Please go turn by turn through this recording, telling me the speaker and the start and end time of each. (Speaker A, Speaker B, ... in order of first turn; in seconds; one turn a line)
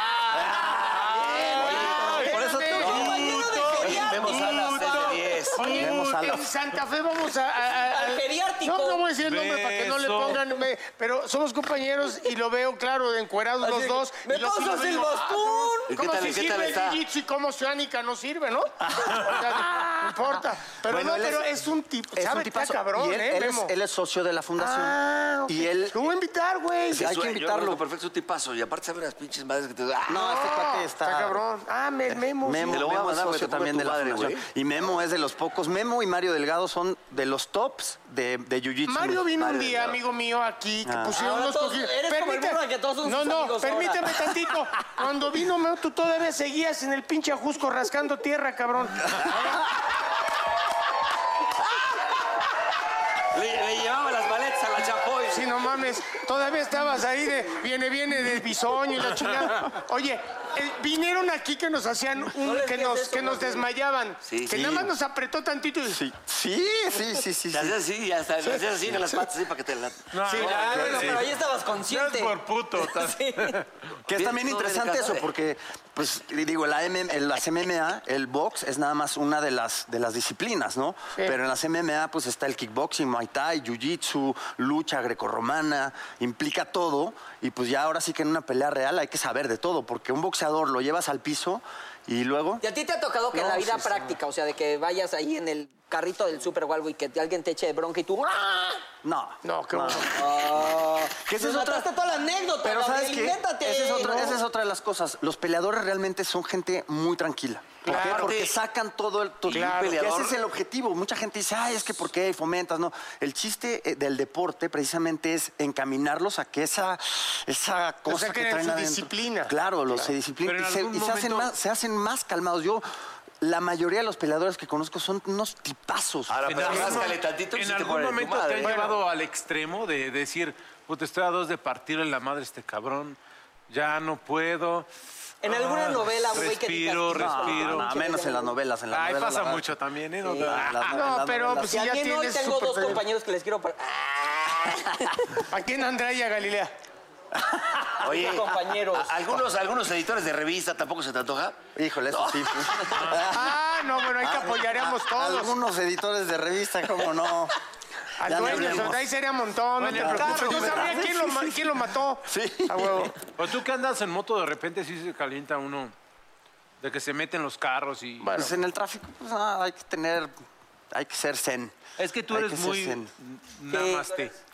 Speaker A: 0.3-1.0
Speaker B: 0.3-2.2
Speaker C: 1.1-3.3
Speaker D: 1.1-5.3
Speaker E: 1.3-5.2
Speaker A: 1.6-3.2
Speaker B: 2.8-5.8
Speaker C: 5.5-23.7
Speaker A: 5.6-6.5
Speaker D: 7.8-9.0
Speaker E: 9.2-10.4
Speaker D: 13.6-15.9
Speaker B: 15.9-17.0
Speaker A: 19.0-19.3
Speaker A: 20.8-21.6
Speaker A: 22.1-26.0
Speaker C: 24.6-27.1
Speaker A: 26.9-27.8
Speaker B: 26.9-30.3
Speaker A: 30.1-31.4
Speaker C: 30.1-32.8
Speaker A: 32.1-40.0
Speaker B: 32.7-34.4
Speaker C: 38.9-49.5
Speaker A: 40.8-41.2
Speaker D: 41.2-44.2
Speaker B: 53.3-55.5
Speaker C: 55.3-66.0
Speaker D: 62.4-63.6
Speaker B: 64.2-64.6
Speaker A: 64.5-64.9
Speaker A: 65.9-67.8
Speaker B: 67.5-71.1
Speaker E: 70.1-73.7
Speaker C: 70.2-70.7
Speaker D: 70.4-73.5
Speaker A: 70.6-71.2
Speaker A: 74.1-92.6
Speaker B: 74.1-75.2
Speaker D: 92.6-98.8
Speaker A: 93.3-94.1
Speaker A: 99.0-101.9
Speaker C: 99.4-100.1
Speaker D: 100.1-104.3
Speaker A: 102.6-122.8
Speaker C: 104.0-104.3
Speaker C: 107.8-108.4
Speaker B: 107.9-108.5
Speaker B: 109.5-110.3
Speaker C: 109.5-110.0
Speaker C: 118.1-120.1
Speaker E: 120.4-121.5
Speaker A: 123.4-127.1
Speaker B: 126.3-128.8
Speaker E: 126.5-133.2
Speaker C: 128.6-129.0
Speaker E: 133.7-134.9
Speaker D: 135.4-138.5
Speaker E: 135.4-137.9
Speaker A: 137.1-139.7
Speaker E: 138.9-141.0
Speaker D: 140.2-140.5
Speaker A: 140.3-141.8
Speaker C: 140.9-143.0
Speaker D: 141.6-145.3
Speaker C: 145.5-146.7
Speaker A: 147.6-147.9
Speaker B: 148.0-152.8
Speaker D: 148.0-149.1
Speaker A: 151.7-153.5
Speaker E: 152.9-153.3
Speaker C: 153.2-155.5
Speaker A: 154.2-157.6
Speaker C: 158.2-163.2
Speaker A: 158.2-159.0
Speaker E: 158.4-158.8
Speaker E: 159.8-161.1
Speaker A: 159.9-161.7
Speaker A: 162.2-163.1
Speaker E: 163.3-165.9
Speaker E: 166.8-168.3
Speaker C: 168.2-168.5
Speaker A: 168.3-170.3
Speaker A: 170.9-173.1
Speaker E: 172.0-174.3
Speaker D: 173.7-174.3